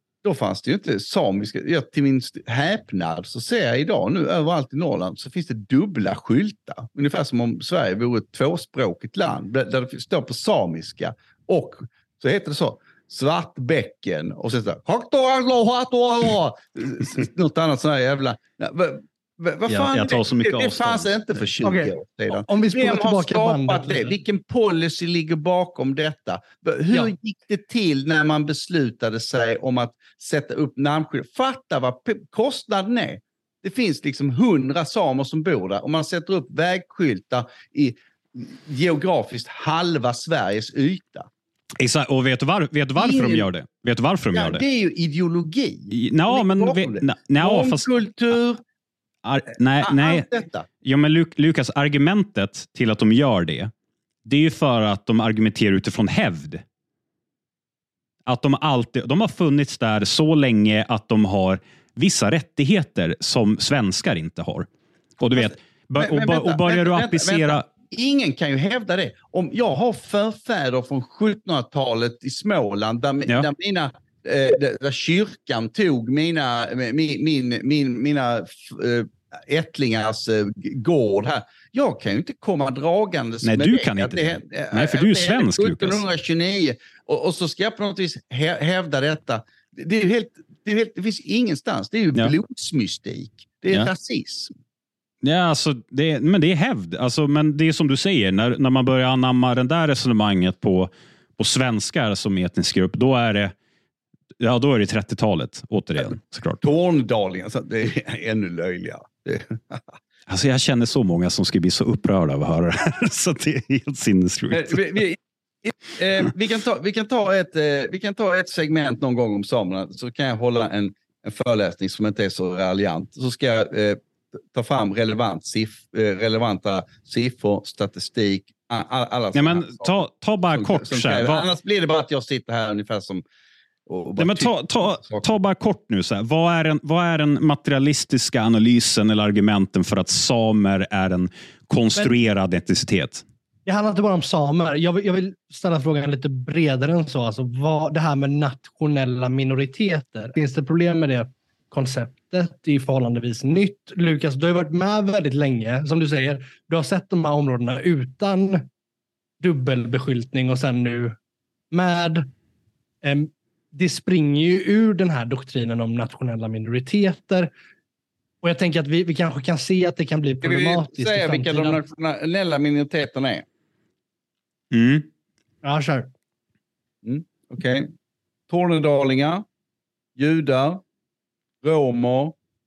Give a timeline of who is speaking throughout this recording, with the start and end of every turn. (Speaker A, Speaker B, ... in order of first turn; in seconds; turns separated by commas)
Speaker A: 0.2-41.3, Speaker B: 19.7-21.6, Speaker C: 21.6-24.1, Speaker B: 41.8-44.6, Speaker A: 43.0-43.5, Speaker A: 44.3-48.6, Speaker B: 45.9-47.9, Speaker B: 49.2-50.3, Speaker A: 49.8-50.7, Speaker B: 50.8-53.7, Speaker B: 54.2-56.6, Speaker B: 58.2-64.7, Speaker B: 65.2-67.7, Speaker A: 65.3-94.5, Speaker B: 83.4-86.0, Speaker B: 95.2-103.5, Speaker B: 104.4-106.6, Speaker A: 106.6-109.9, Speaker B: 110.3-115.0, Speaker A: 114.5-124.0, Speaker A: 124.5-133.2, Speaker B: 129.3-131.4, Speaker A: 133.9-135.2, Speaker B: 134.2-143.2, Speaker C: 143.7-158.6, Speaker C: 159.4-161.1, Speaker C: 161.7-162.3, Speaker C: 163.0-167.5, Speaker C: 168.4-171.8, Speaker A: 170.4-173.4, Speaker B: 174.7-175.1, Speaker C: 175.6-176.1, Speaker A: 177.0-177.9, Speaker A: 178.5-179.4, Speaker A: 180.2-180.8, Speaker A: 181.6-182.3